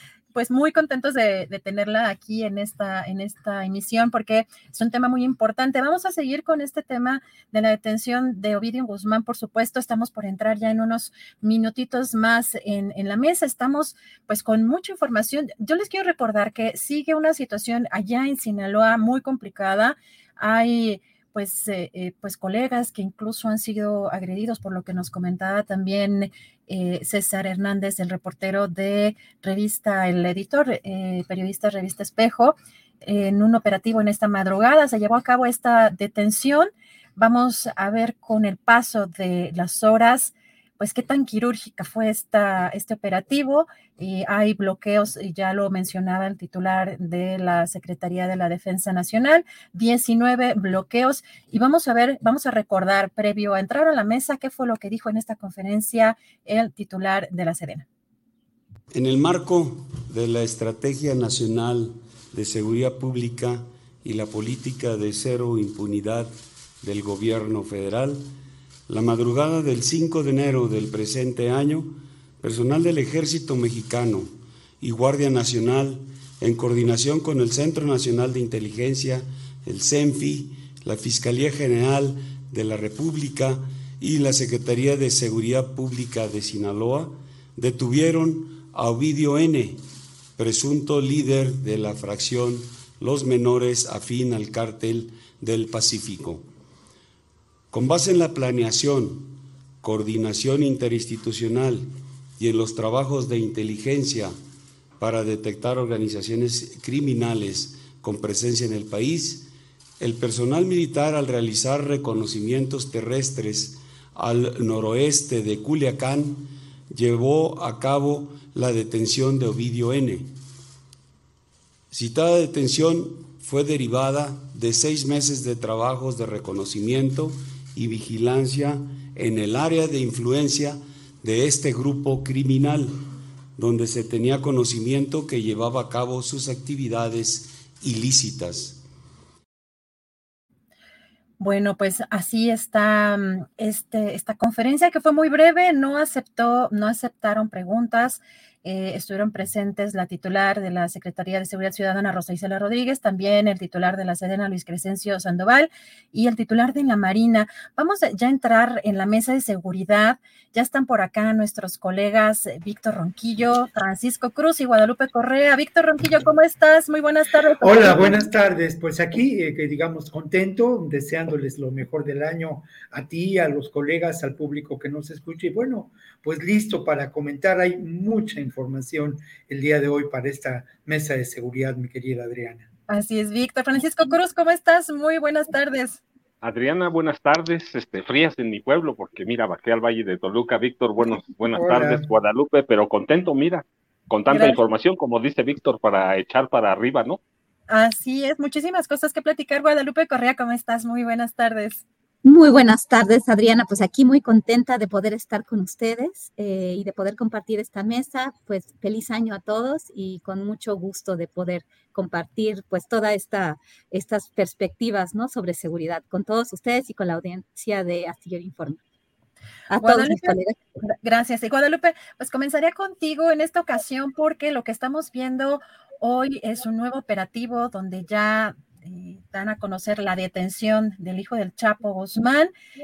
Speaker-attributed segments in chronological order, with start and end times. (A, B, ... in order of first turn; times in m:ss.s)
0:00.3-0:57.9 A
0:58.9-1:08.3 B
1:08.9-1:29.8 B
1:30.4-1:36.5 B
1:37.7-1:44.3 B
1:45.0-2:00.3 B
2:01.9-2:18.8 B
2:21.4-2:48.2 A
2:47.6-3:02.7 C
3:02.9-3:06.0 A
3:06.4-3:17.2 D
3:11.5-3:12.0 C
3:14.3-3:14.6 A
3:17.7-3:21.8 A
3:22.2-3:38.8 E
3:39.7-3:40.5 E
3:39.8-3:52.5 A